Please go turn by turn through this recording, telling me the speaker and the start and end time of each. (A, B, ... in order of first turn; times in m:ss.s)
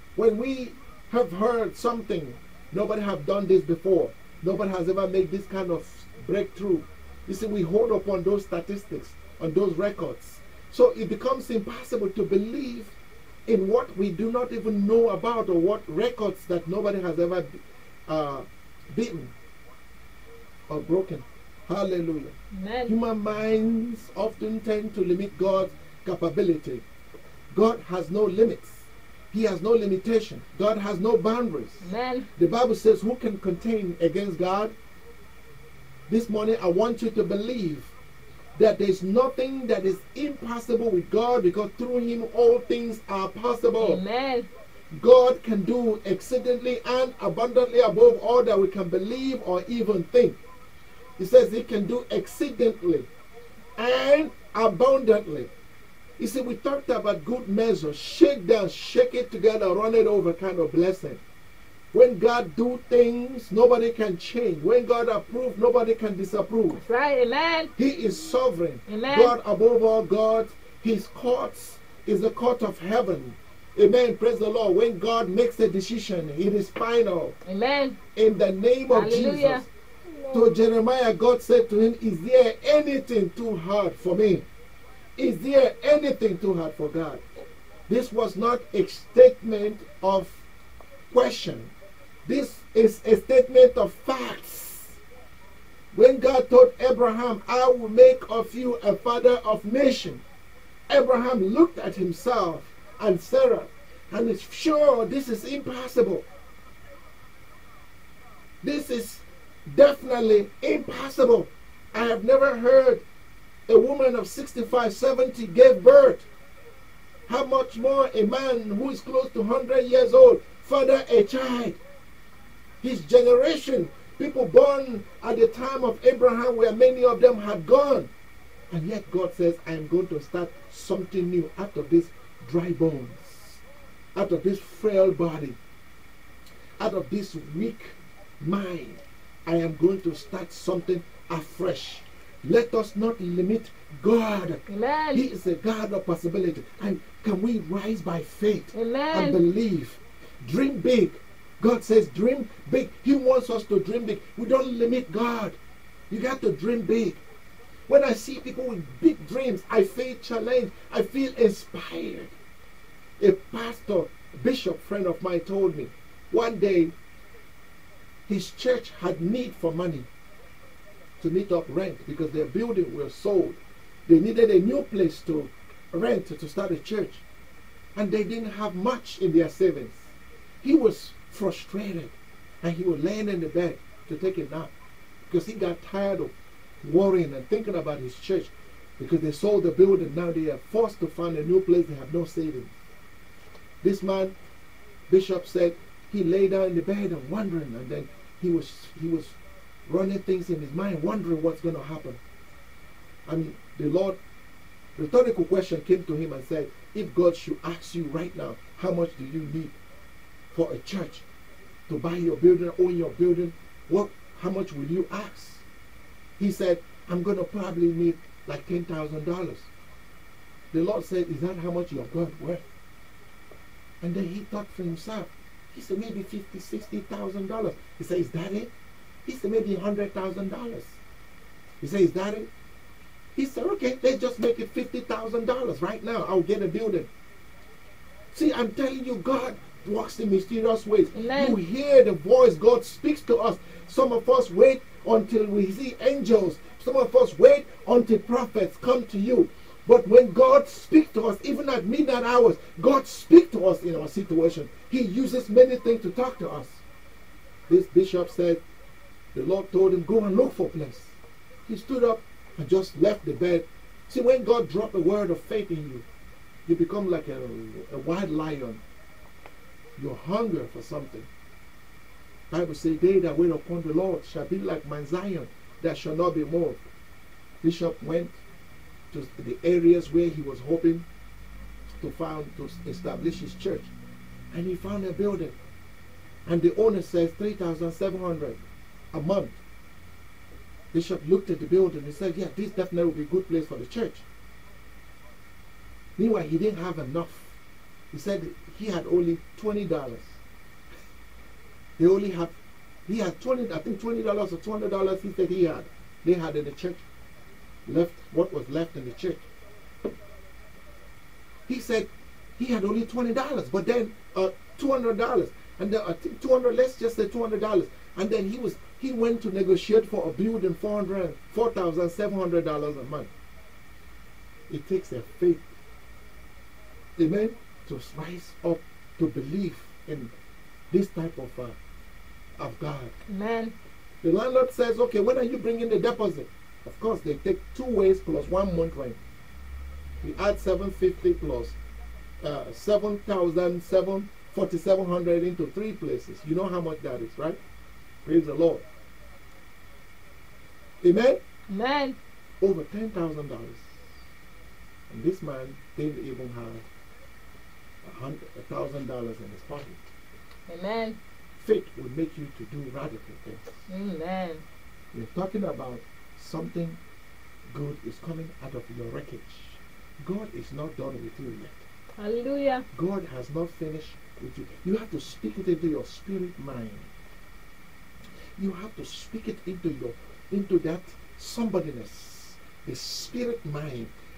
0:00.2-0:12.9 A
0:13.5-0:19.3 A
0:20.7-0:22.4 A
0:22.5-0:22.9 B
0:22.9-0:26.8 A
0:27.5-0:34.7 A
0:31.8-0:32.3 B
0:36.1-0:37.9 A
0:38.6-0:44.0 A
0:43.8-0:44.5 B
0:44.9-0:50.4 A
0:51.2-0:53.1 A
0:53.8-0:55.5 A
0:56.2-1:01.2 A
1:01.9-1:06.8 A
1:06.8-1:07.7 B
1:07.8-1:17.4 A
1:08.9-1:09.4 B
1:17.4-1:18.0 B
1:18.1-1:19.7 A
1:18.9-1:19.6 B
1:20.3-1:24.4 A
1:25.2-1:27.2 A
1:27.9-1:30.4 A
1:31.1-1:31.7 A
1:32.2-1:35.0 A
1:35.9-1:40.2 A
1:40.9-1:46.2 A
1:48.6-1:53.0 A
1:53.7-1:56.3 A
1:57.3-2:01.8 A
2:02.8-2:08.1 A
2:08.7-2:13.6 A
2:14.1-2:15.6 A
2:16.8-2:35.6 A
2:24.7-2:25.2 B
2:28.7-2:29.4 B
2:36.1-2:37.2 A
2:37.9-2:42.4 A
2:43.2-2:46.9 A
2:48.3-2:50.1 A
2:51.2-2:57.2 A
2:57.9-3:00.1 A
3:00.6-3:04.7 A
3:05.3-3:12.7 A
3:13.8-3:14.4 A
3:15.1-3:22.2 A
3:23.2-3:24.2 A
3:25.0-3:29.8 A
3:30.5-3:31.2 A
3:31.9-3:35.6 A
3:36.4-3:39.7 A
3:40.7-3:42.6 A
3:44.0-3:48.7 A
3:49.2-3:51.0 A
3:51.8-3:52.5 A
3:53.4-3:57.1 A
3:58.3-4:16.8 A
4:01.1-4:01.6 B
4:17.7-4:18.6 A
4:19.3-4:26.1 A
4:26.7-4:28.8 A
4:30.0-4:31.3 A
4:32.5-4:36.8 A
4:37.6-4:38.4 A
4:39.1-4:41.1 A
4:42.0-4:43.9 A
4:44.5-4:45.6 A
4:46.4-4:48.6 A
4:49.1-4:49.6 A
4:50.9-4:54.2 A
4:56.2-4:57.6 A
4:58.1-5:00.4 A
5:02.0-5:02.6 A
5:03.1-5:07.0 A
5:07.9-5:09.4 A
5:11.7-5:23.3 A
5:24.7-5:25.7 A
5:27.2-5:30.3 A
5:30.9-5:31.8 A
5:32.6-5:33.1 A
5:33.3-5:33.8 B
5:34.2-5:39.2 A
5:40.2-5:41.8 A
5:42.4-5:47.6 A
5:48.2-5:48.8 A
5:51.0-5:51.4 A
5:51.7-5:52.2 B
5:52.6-5:53.9 A
5:55.1-5:56.8 A
5:58.0-6:00.1 A
6:00.7-6:01.2 B
6:01.6-6:03.8 A
6:03.9-6:04.6 B
6:05.1-6:07.0 A
6:07.7-6:11.8 A
6:12.2-6:12.9 B
6:12.9-6:17.1 A
6:18.6-6:24.1 A